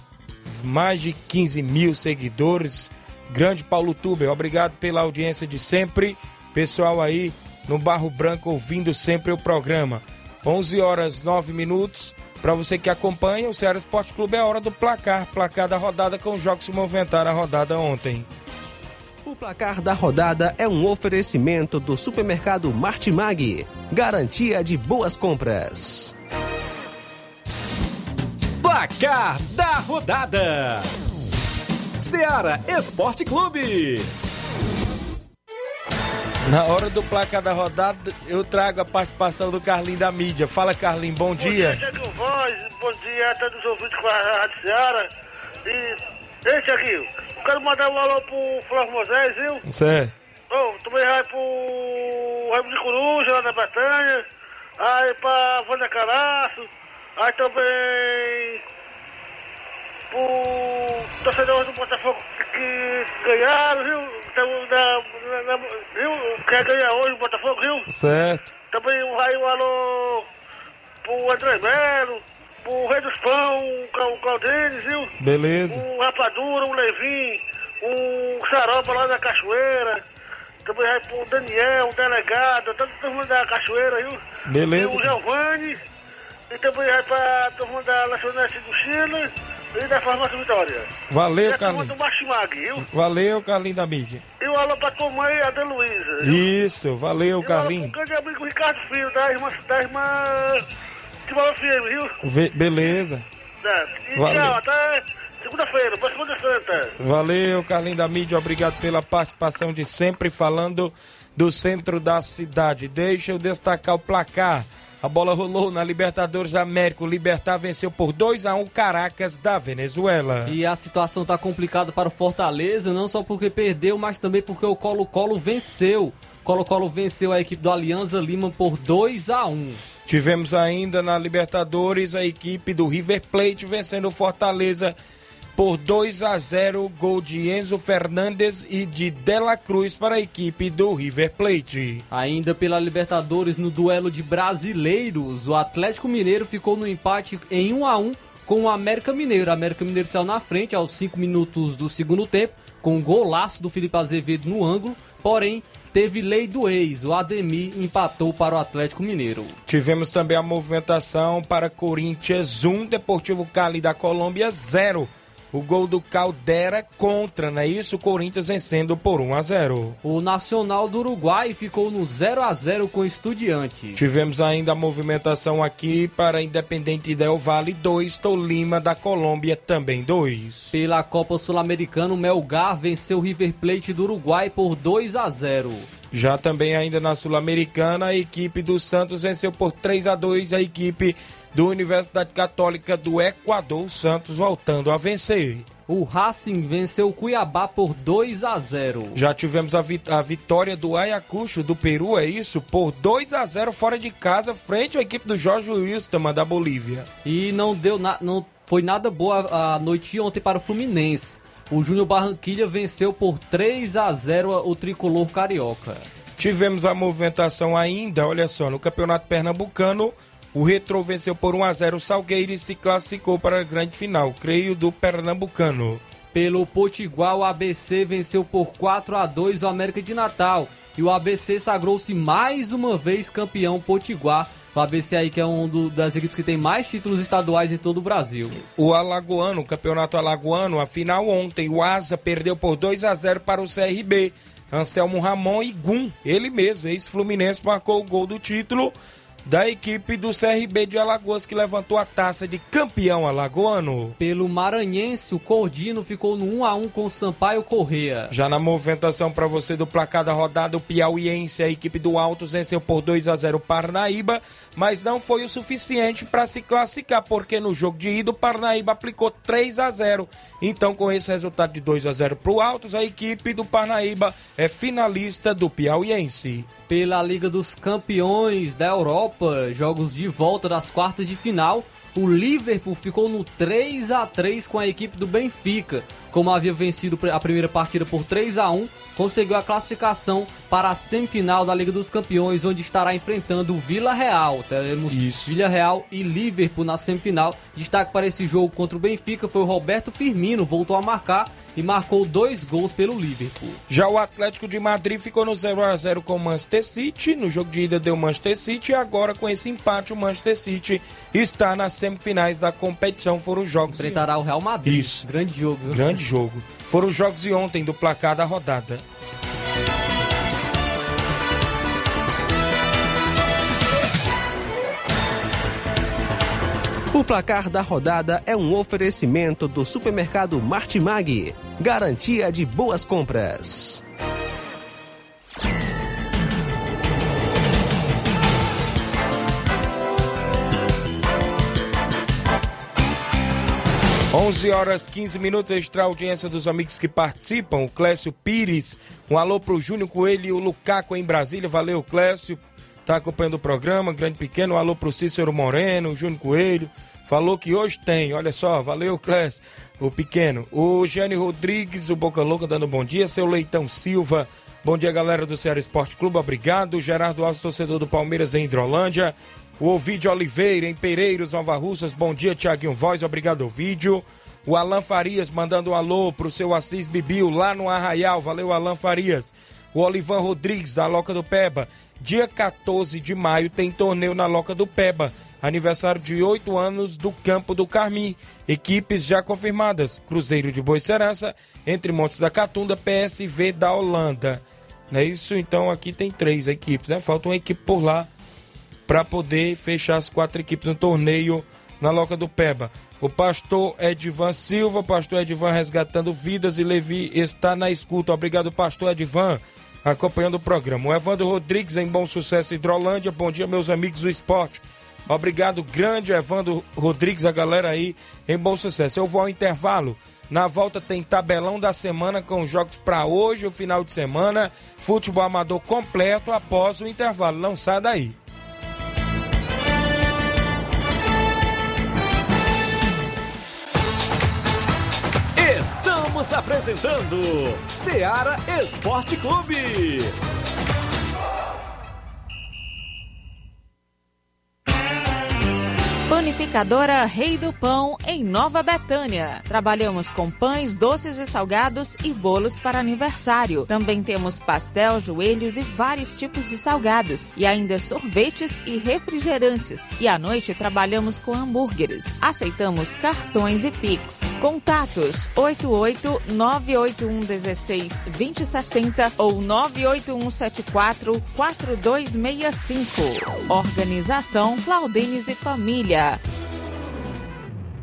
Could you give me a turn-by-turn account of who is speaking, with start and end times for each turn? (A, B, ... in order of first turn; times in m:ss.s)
0:00.4-0:18.3 A
0:19.2-0:26.1 B
0:28.6-0:30.9 C
0:32.0-0:34.1 C
0:36.4-0:41.8 A
0:41.4-0:45.1 D
0:45.6-0:49.6 D
0:49.6-0:50.1 A
0:50.5-0:54.2 D
0:54.8-0:58.6 D
1:00.1-1:07.8 D
1:07.9-1:08.5 A
1:08.7-1:10.3 D
1:11.0-1:15.1 D
1:15.2-1:15.8 A
1:15.7-1:20.0 D
1:20.6-1:24.2 D
1:24.5-1:25.1 A
1:24.7-1:25.8 D
1:26.5-1:30.9 D
1:31.1-1:31.9 A
1:31.4-1:32.9 D
1:32.8-1:34.2 A
1:34.4-1:36.4 D
1:36.2-1:37.9 A
1:37.4-1:40.6 D
1:41.3-1:42.1 D
1:42.2-1:43.2 A
1:43.6-1:46.9 D
1:44.1-1:44.6 A
1:47.0-2:00.6 A
2:00.4-2:09.8 E
2:10.0-2:15.0 A
2:15.6-2:22.0 A
2:22.1-2:39.6 E
2:39.7-2:50.0 A
2:50.0-2:54.0 E
2:53.9-3:00.7 A
3:00.7-3:05.9 E
3:06.1-3:15.7 A
3:15.9-3:19.2 E
3:19.1-3:27.1 A
3:27.2-3:36.0 E
3:36.4-3:46.0 A
3:46.3-3:58.6 E
3:58.6-4:08.9 A
4:09.4-4:14.2 A
4:14.2-4:18.3 E
4:18.3-4:36.7 A
4:36.9-5:03.8 E
4:55.1-4:55.5 A
5:03.9-5:14.2 A
5:13.9-5:16.2 E
5:14.8-5:15.2 A
5:15.8-5:19.0 A
5:27.1-5:34.0 B
5:44.3-6:38.3 A
6:39.1-7:08.4 A
7:15.6-7:20.3 C
7:26.3-7:56.4 F